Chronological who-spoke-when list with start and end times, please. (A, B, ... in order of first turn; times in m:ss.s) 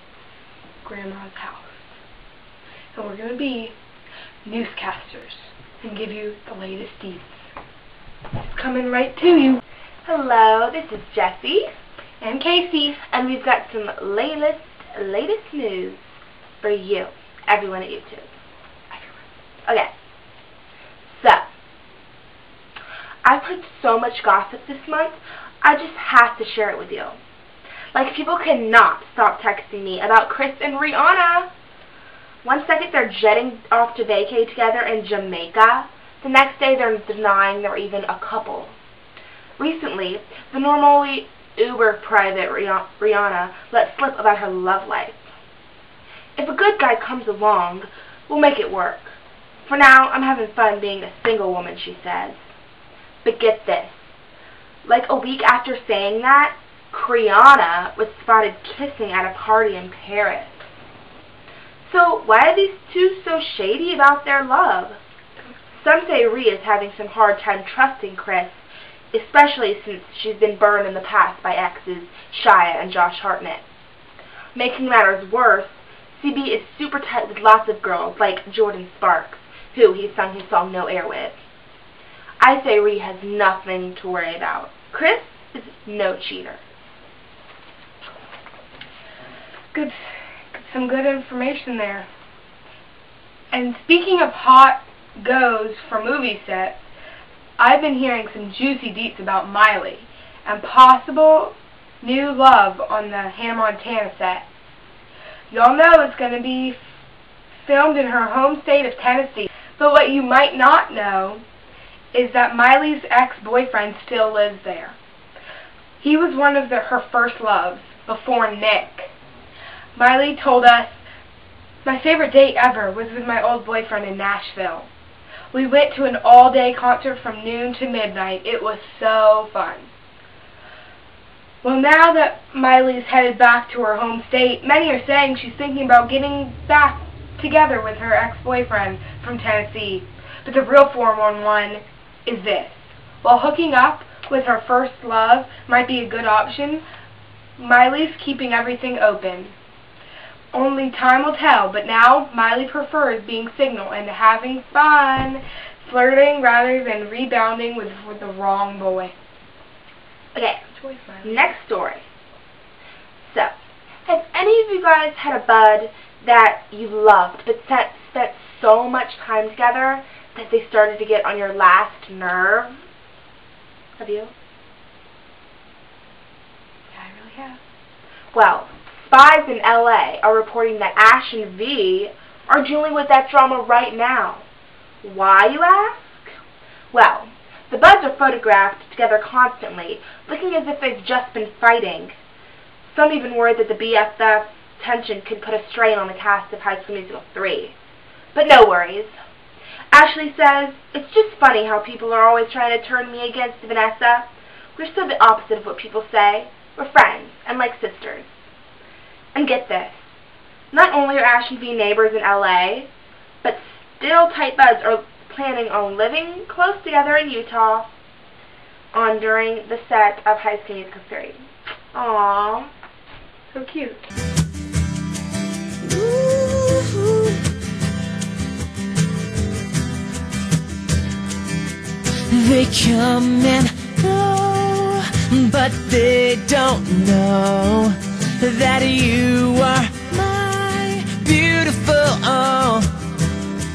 0:00.8-0:01.9 A
0:02.9-0:03.7 A
0:04.4-0:07.4 A
0:08.4-0:09.6 A
0:10.0-0:11.7 B
0:12.2-0:13.0 A
0:13.1-0:16.0 B
0:16.6-0:18.3 B
0:21.1-0:21.4 B
0:23.2-0:27.2 B
0:27.9-0:31.5 B
0:32.4-0:38.7 B
0:39.6-0:45.2 B
0:46.4-0:49.2 B
0:49.7-0:52.4 B
0:53.2-0:54.0 B
0:54.8-1:00.6 B
1:01.8-1:05.0 B
1:05.8-1:08.6 B
1:09.1-1:13.6 B
1:14.5-1:21.4 B
1:22.4-1:26.6 B
1:30.5-1:32.1 A
1:33.5-1:36.8 A
1:37.6-1:44.4 A
1:45.5-1:46.8 A
1:47.6-1:51.4 A
1:52.1-1:55.0 A
1:56.0-1:59.1 A
1:59.9-2:01.0 A
2:01.8-2:04.9 A
2:05.5-2:09.9 A
2:11.6-2:26.8 A
2:27.6-2:29.5 A
2:30.5-2:39.1 A
2:40.3-2:40.6 B
2:40.7-2:41.4 A
2:41.2-2:42.0 B
2:43.2-2:43.5 B
2:44.0-2:52.7 B
2:54.0-2:54.3 B
2:56.9-2:57.6 A
2:58.3-3:04.4 B
3:05.0-3:06.2 B
3:06.9-3:12.1 B
3:12.9-3:17.8 B
3:18.3-3:19.1 B
3:19.9-3:28.3 B
3:29.3-3:30.0 B
3:30.7-3:32.9 B
3:33.4-3:37.9 B
3:38.9-3:42.7 B
3:43.5-3:44.0 A
3:45.8-3:47.4 C
3:52.3-4:02.9 C